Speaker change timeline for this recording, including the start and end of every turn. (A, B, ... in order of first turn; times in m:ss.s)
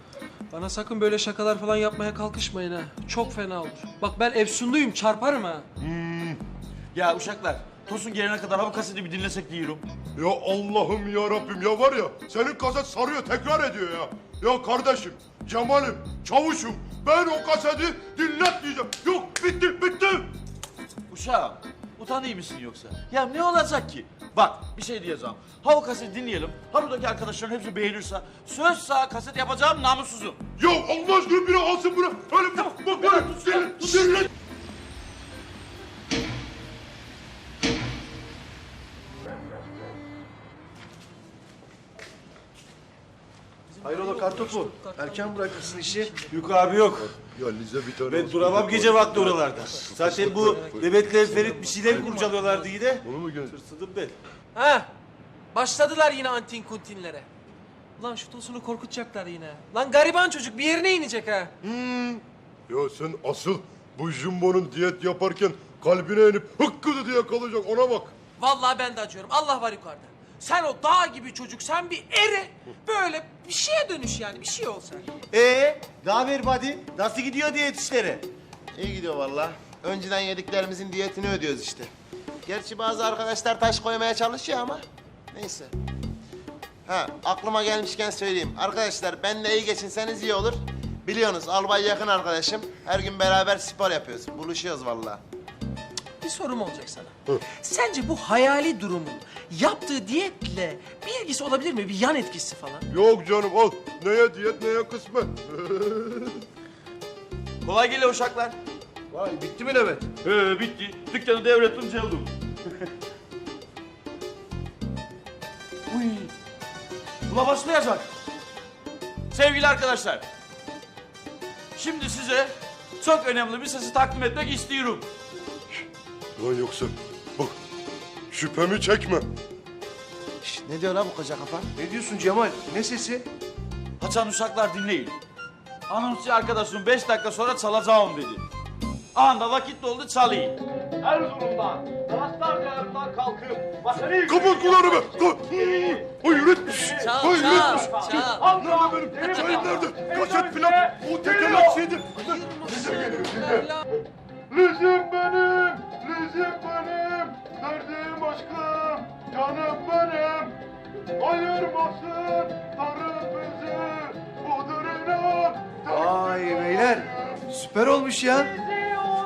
0:00.5-0:05.7 A
0:05.8-0:06.4 B
0:07.0-0:09.8 C
0:10.2-0:20.3 B
0:21.1-0:30.4 C
0:30.6-0:34.3 B
0:32.7-0:34.3 C
0:43.7-0:46.5 A
0:43.8-0:46.2 D
0:46.4-0:47.1 E
0:47.0-0:50.9 B
0:48.1-0:53.0 E
0:49.5-0:52.8 A
0:51.8-0:52.2 B
0:53.0-0:53.6 B
0:53.6-0:54.1 E
0:53.7-0:54.0 C
0:54.5-0:54.9 A
0:55.5-0:57.3 A
0:58.0-1:01.5 A
1:01.6-1:08.1 B
1:08.4-1:15.1 A
1:15.3-1:18.2 E
1:18.7-1:21.9 F
1:22.4-1:25.7 F
1:26.9-1:35.2 F
1:36.2-1:42.9 A
1:42.9-1:46.4 B
1:47.6-1:48.6 C
1:49.1-1:50.1 D
1:50.2-1:52.3 C
1:55.9-1:56.3 C
1:57.3-1:58.1 C
1:59.3-2:00.2 C
2:01.8-2:05.1 C
2:06.4-2:07.6 B
2:08.3-2:09.3 B
2:10.4-2:11.7 F
2:11.8-2:13.3 D
2:14.0-2:15.2 C
2:15.9-2:18.4 C
2:19.2-2:26.0 C
2:24.3-2:33.7 B
2:26.8-2:29.9 C
2:27.0-2:28.4 A
2:29.2-2:29.9 A
2:32.2-2:33.9 A
2:34.5-2:40.5 B
2:41.2-2:46.1 B
2:45.8-2:49.1 D